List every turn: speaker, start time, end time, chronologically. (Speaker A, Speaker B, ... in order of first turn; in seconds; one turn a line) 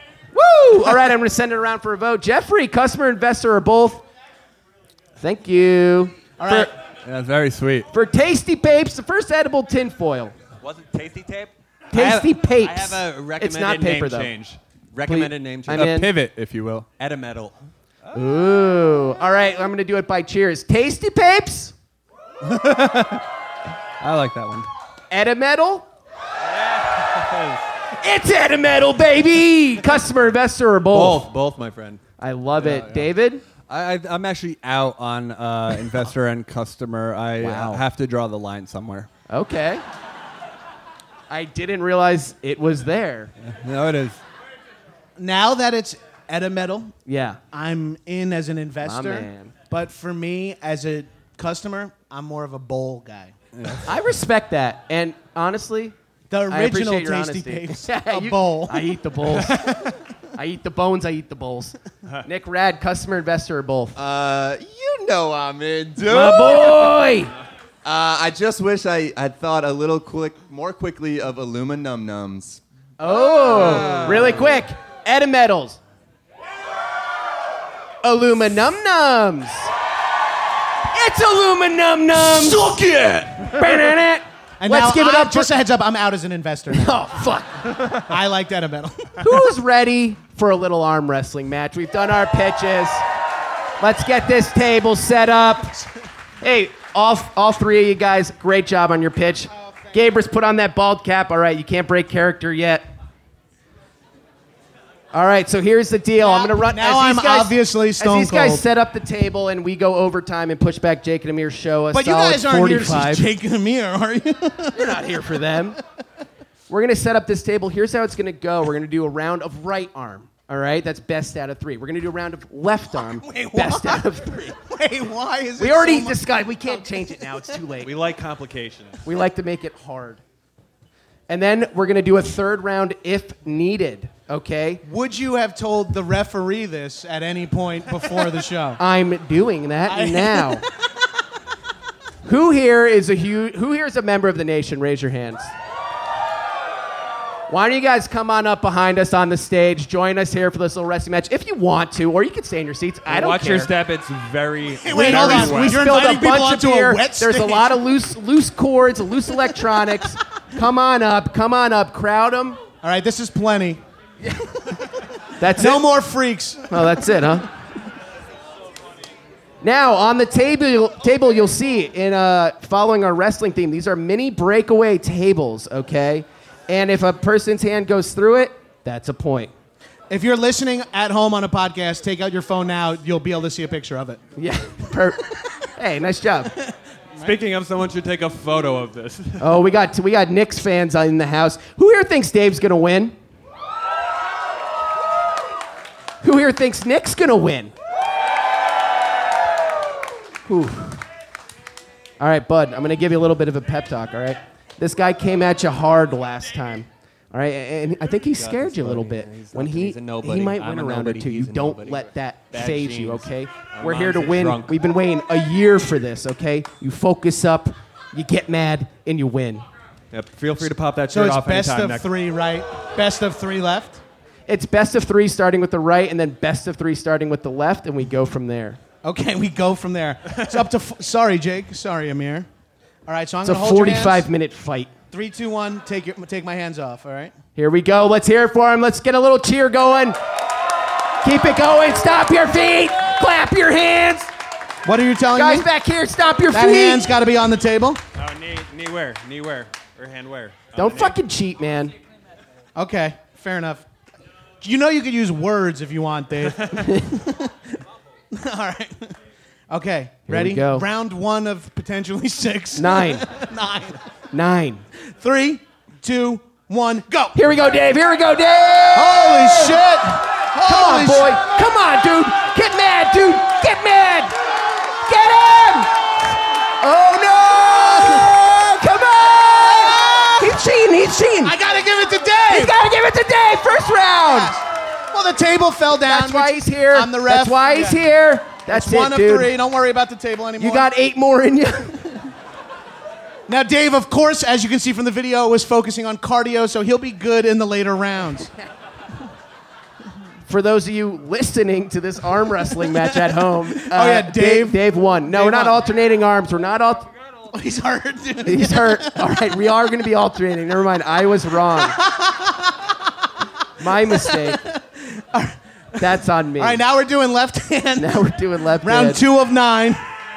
Speaker A: 0.3-4.0
Speaker A: 5.2-6.7
Speaker B: 6.4-6.7
Speaker C: 7.0-7.9
Speaker A: 7.9-10.4
Speaker D: 10.6-15.9
Speaker A: 11.9-14.3
Speaker A: 15.1-16.1
Speaker C: 15.7-16.9
Speaker D: 17.0-17.6
Speaker A: 18.1-21.7
Speaker C: 22.4-23.2
Speaker C: 24.0-24.7
Speaker A: 25.1-25.9
Speaker D: 26.6-27.6
Speaker A: 27.9-31.3
Speaker D: 30.9-32.0
Speaker A: 32.2-33.4
Speaker C: 32.6-33.0
Speaker C: 33.7-39.1
Speaker A: 37.4-37.8
Speaker A: 39.3-39.8
Speaker A: 41.3-43.3
Speaker C: 43.4-44.2
Speaker B: 45.2-47.0
Speaker A: 47.1-47.4
Speaker B: 47.5-53.4
Speaker A: 48.8-49.5
Speaker C: 53.5-53.9
Speaker A: 53.9-56.0
Speaker B: 56.3-60.0
Speaker A: 56.5-59.6
Speaker A: 60.4-64.0
Speaker E: 64.0-66.9
Speaker A: 66.1-67.3
Speaker E: 67.8-72.6
Speaker A: 73.0-75.8
Speaker C: 73.5-74.6
Speaker A: 78.0-79.7
Speaker A: 80.9-82.9
Speaker A: 83.4-85.5
Speaker B: 84.6-87.0
Speaker A: 86.7-88.0
Speaker B: 87.9-89.4
Speaker A: 89.2-93.1
Speaker A: 93.8-95.8
Speaker A: 96.4-102.9
Speaker B: 99.5-100.0
Speaker A: 105.1-113.3
Speaker B: 106.2-108.6
Speaker B: 111.9-115.3
Speaker A: 114.7-115.8
Speaker A: 116.7-124.6
Speaker B: 123.0-127.0
Speaker A: 125.6-127.9
Speaker D: 127.8-129.0
Speaker A: 129.0-130.2
Speaker A: 131.3-134.8
Speaker B: 134.8-138.8
Speaker A: 138.8-140.6
Speaker B: 139.9-140.6
Speaker A: 142.2-145.5
Speaker A: 147.5-153.7
Speaker D: 153.1-155.8
Speaker B: 154.8-157.8
Speaker A: 154.9-162.6
Speaker B: 162.8-163.8
Speaker A: 165.4-165.9
Speaker B: 165.6-167.1
Speaker A: 166.7-167.5
Speaker A: 169.6-179.5
Speaker B: 180.1-184.2
Speaker A: 184.4-186.6
Speaker D: 187.2-189.6
Speaker A: 189.4-193.2
Speaker A: 196.2-197.7
Speaker A: 200.5-201.0
Speaker A: 202.2-219.7
Speaker D: 208.3-214.8
Speaker D: 220.1-222.1
Speaker B: 221.1-224.0
Speaker A: 224.5-228.8
Speaker B: 229.0-232.5
Speaker B: 233.1-234.3
Speaker A: 233.4-234.9
Speaker B: 235.1-237.3
Speaker A: 237.6-240.2
Speaker A: 241.2-244.3
Speaker B: 244.8-245.7
Speaker A: 245.3-247.1
Speaker B: 246.5-248.0
Speaker D: 248.2-251.2
Speaker A: 250.8-251.9
Speaker B: 252.8-253.9
Speaker B: 254.6-257.5
Speaker B: 258.3-259.2
Speaker B: 259.7-264.0
Speaker A: 260.3-260.9
Speaker A: 262.8-263.3
Speaker A: 264.3-264.8
Speaker B: 265.2-267.4
Speaker A: 267.4-269.8
Speaker B: 268.9-271.4
Speaker A: 270.6-274.4
Speaker A: 275.0-275.9
Speaker A: 276.8-281.6
Speaker B: 278.0-278.3
Speaker B: 279.5-280.6
Speaker B: 281.4-282.7
Speaker A: 282.5-284.5
Speaker B: 284.3-288.1
Speaker A: 286.1-289.6
Speaker B: 288.7-290.9
Speaker A: 290.6-292.2
Speaker B: 293.5-298.5
Speaker A: 300.5-307.1
Speaker B: 303.8-305.8
Speaker B: 307.5-309.2
Speaker A: 308.4-312.0
Speaker B: 311.8-312.9
Speaker A: 313.8-314.6
Speaker B: 314.0-318.3
Speaker A: 316.0-316.8
Speaker A: 318.0-319.2
Speaker B: 318.8-320.0